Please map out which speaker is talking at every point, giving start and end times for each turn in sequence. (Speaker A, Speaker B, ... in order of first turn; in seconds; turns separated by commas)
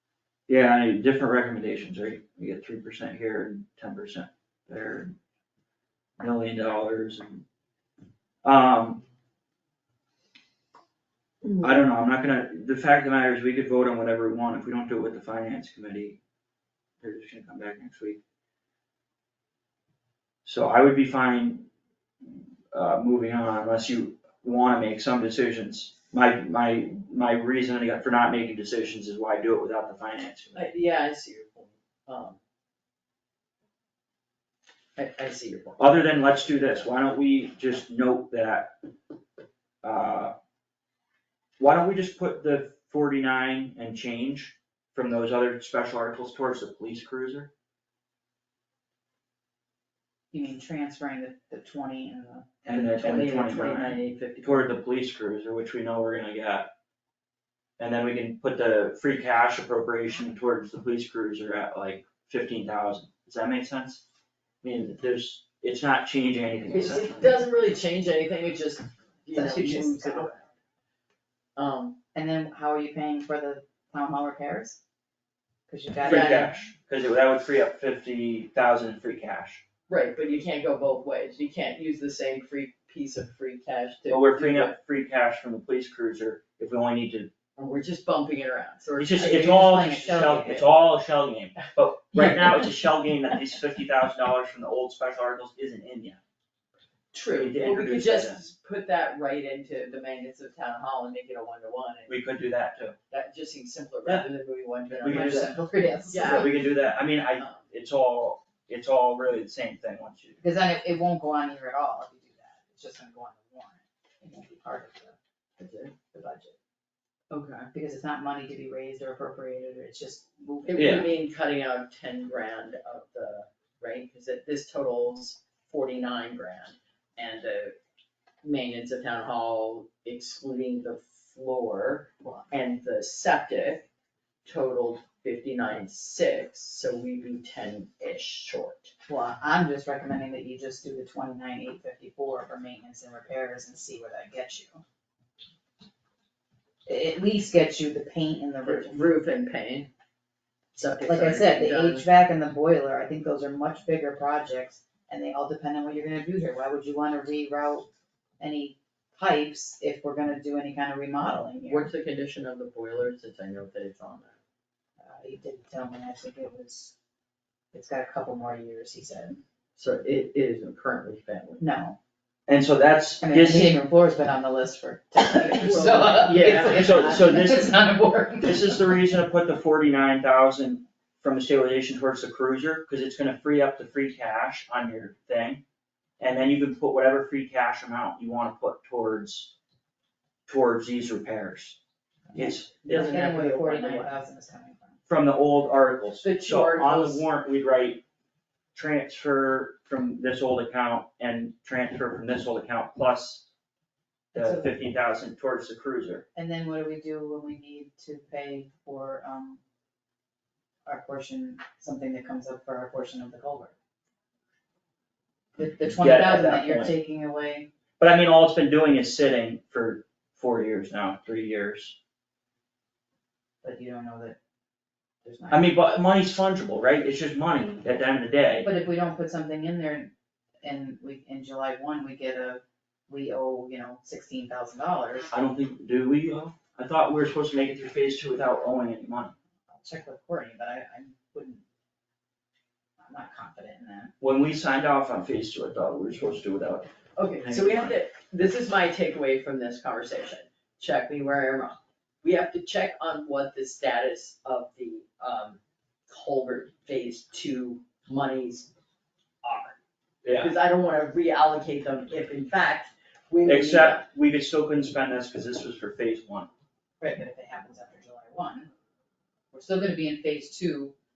Speaker A: 0.5-5.1, Speaker A: 6.2-7.4, Speaker A: 8.4-9.0, Speaker B: 11.4-11.7, Speaker A: 11.6-16.2, Speaker A: 17.0-18.2, Speaker A: 20.4-21.7, Speaker A: 22.2-30.7, Speaker B: 30.5-32.4, Speaker B: 35.0-36.1, Speaker A: 35.8-38.8, Speaker A: 39.8-40.3, Speaker A: 41.6-47.5, Speaker C: 50.3-52.9, Speaker A: 52.6-56.7, Speaker B: 52.9-54.7, Speaker A: 57.8-64.0, Speaker A: 64.6-67.4, Speaker B: 66.7-70.5, Speaker C: 69.3-70.3, Speaker B: 71.6-72.0, Speaker C: 72.1-74.8, Speaker C: 75.7-76.5, Speaker A: 76.0-79.6, Speaker B: 76.0-76.5, Speaker B: 79.9-84.8, Speaker A: 84.1-87.3, Speaker B: 87.6-89.4, Speaker A: 89.0-96.2, Speaker C: 89.2-90.8, Speaker B: 92.2-92.4, Speaker B: 97.1-102.2, Speaker A: 97.3-98.4, Speaker A: 102.1-103.0, Speaker B: 103.1-105.5, Speaker A: 104.0-104.3, Speaker A: 104.9-105.6, Speaker C: 105.0-106.5, Speaker B: 106.1-106.7, Speaker A: 106.2-110.4, Speaker B: 107.4-107.6, Speaker C: 110.4-115.2, Speaker B: 115.6-116.0, Speaker C: 116.1-116.5, Speaker B: 117.3-117.7, Speaker C: 117.7-121.1, Speaker B: 120.7-127.7, Speaker A: 120.8-121.1, Speaker B: 128.4-133.9, Speaker B: 134.4-138.9, Speaker C: 139.1-144.8, Speaker C: 146.9-149.1, Speaker B: 148.6-149.9, Speaker B: 150.8-152.1, Speaker C: 151.1-157.9, Speaker C: 158.4-161.9, Speaker B: 161.6-164.3, Speaker C: 165.0-166.9, Speaker C: 167.7-169.4, Speaker B: 169.8-171.6, Speaker C: 171.6-172.0, Speaker A: 172.5-173.8, Speaker C: 173.2-179.1, Speaker B: 175.2-177.3, Speaker A: 176.7-177.8, Speaker A: 178.4-185.6, Speaker A: 186.2-189.5, Speaker A: 190.5-191.8, Speaker C: 192.3-195.0, Speaker A: 192.3-193.2, Speaker B: 192.8-194.1, Speaker A: 195.1-198.0, Speaker B: 196.2-197.2, Speaker A: 198.7-203.5, Speaker C: 204.3-204.7, Speaker A: 204.3-206.2, Speaker C: 206.3-209.6, Speaker C: 210.9-213.7, Speaker C: 215.6-217.7, Speaker A: 215.9-216.9, Speaker A: 218.0-222.0, Speaker C: 223.6-224.4, Speaker C: 225.2-225.8, Speaker A: 225.5-228.7, Speaker C: 228.6-230.1, Speaker C: 230.6-235.3, Speaker A: 235.3-239.3, Speaker C: 239.7-241.6, Speaker C: 243.0-244.1, Speaker A: 244.2-246.9, Speaker B: 247.2-258.7, Speaker A: 247.5-247.9, Speaker B: 259.4-259.8, Speaker A: 260.2-260.5, Speaker B: 260.3-264.1, Speaker A: 263.5-266.5, Speaker C: 267.0-268.7, Speaker C: 269.5-270.9